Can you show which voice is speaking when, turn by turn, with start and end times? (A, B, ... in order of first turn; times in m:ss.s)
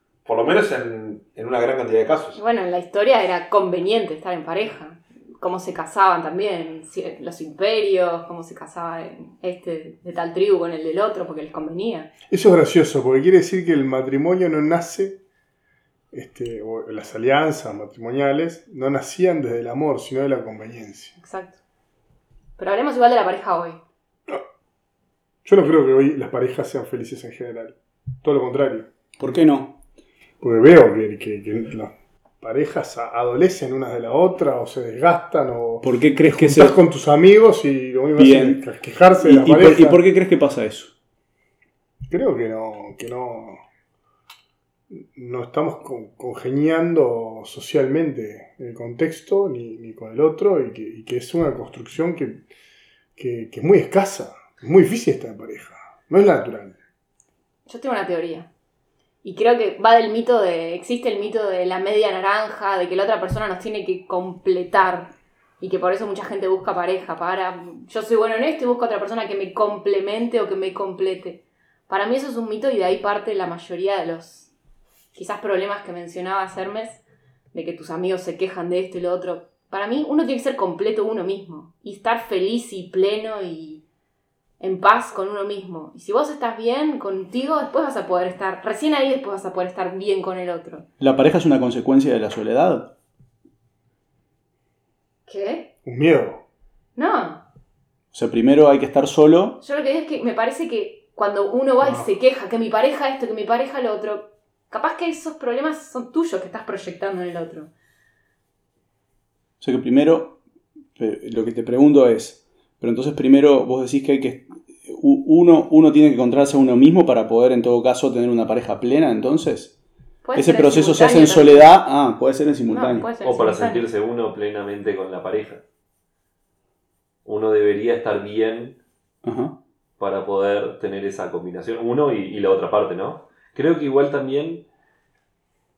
0:00.2-0:02.4 A
0:02.3-0:12.1 B
0:12.3-0:15.2 C
0:16.1-0:21.2 C
0:21.2-0:21.6 B
0:22.6-0:23.8 B
0:25.4-0:28.9 C
0:29.2-0:29.8 D
0:30.4-0:40.0 C
0:35.8-0:36.8 D
0:38.2-0:38.6 D
0:39.2-0:40.9 D
0:42.1-0:43.6 C
0:44.9-0:52.4 C
0:53.2-0:56.8 C
0:57.7-0:58.5 B
0:59.2-1:14.5 B
1:15.1-1:23.8 B
1:24.6-1:30.8 B
1:31.0-1:32.9 D
1:35.3-1:35.7 B
1:35.8-1:36.4 C
1:37.0-1:37.4 B
1:38.1-1:39.6 D
1:39.6-1:47.7 B
1:49.6-1:50.4 D
1:51.0-1:59.7 D
2:00.2-2:01.7 B
2:00.3-2:03.1 D
2:02.7-2:03.8 B
2:03.2-2:05.6 E
2:07.2-2:08.8 E
2:09.2-2:09.6 D
2:10.0-2:14.6 E